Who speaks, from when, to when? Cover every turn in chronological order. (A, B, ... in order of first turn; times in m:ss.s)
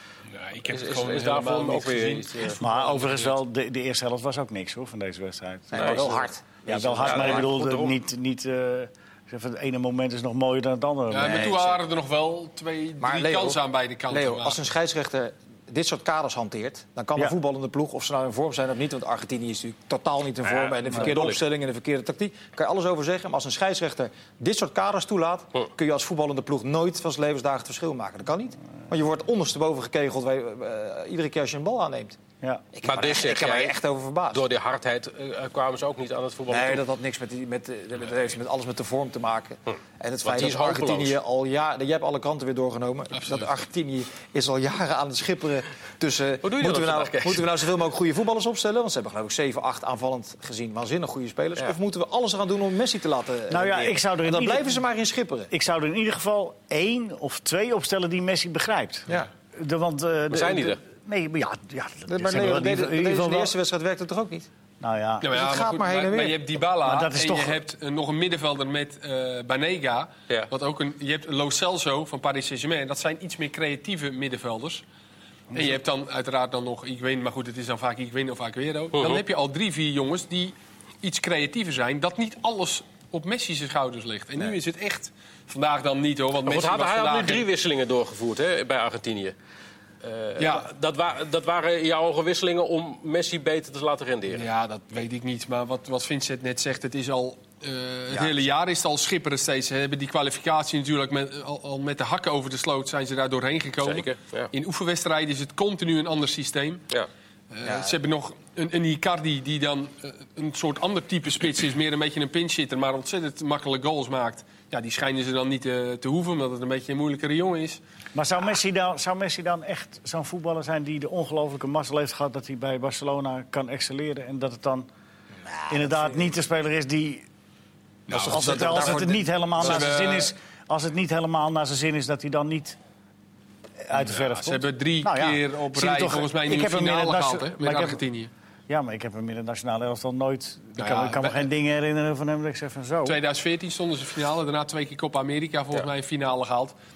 0:00.3-0:03.4 A
0:00.7-0:02.6 B
0:02.6-0:11.6 C
0:05.7-0:07.5 D
0:05.8-0:06.2 B
0:06.8-0:08.0 B
0:11.1-0:14.6 A
0:11.2-0:11.8 D
0:13.0-0:32.2 D
0:20.4-0:21.4 B
0:32.7-0:34.4 D
0:32.8-0:33.8 B
0:34.3-0:36.8 B
0:36.5-0:55.5 D
0:40.2-0:41.2 B
0:43.1-0:43.5 A
0:46.4-0:47.5 B
0:53.5-0:54.8 C
0:55.5-1:03.5 C
1:00.3-1:00.8 B
1:02.1-1:04.5 D
1:04.8-1:05.4 C
1:05.2-1:14.8 A
1:05.3-1:06.4 D
1:06.8-1:07.6 C
1:15.5-1:27.5 A
1:18.9-1:19.2 B
1:26.5-1:29.3 B
1:30.0-1:34.5 B
1:30.4-1:30.7 A
1:34.3-1:46.8 A
1:43.8-1:44.5 B
1:47.5-1:57.8 A
1:47.6-1:48.0 D
1:58.2-2:04.9 C
2:05.5-2:06.3 D
2:05.7-2:07.2 C
2:08.1-2:10.3 A
2:08.1-2:09.8 D
2:08.2-2:12.8 C
2:13.8-2:18.0 C
2:14.0-2:18.3 A
2:18.7-2:23.2 C
2:20.8-2:21.5 A
2:23.0-2:26.7 A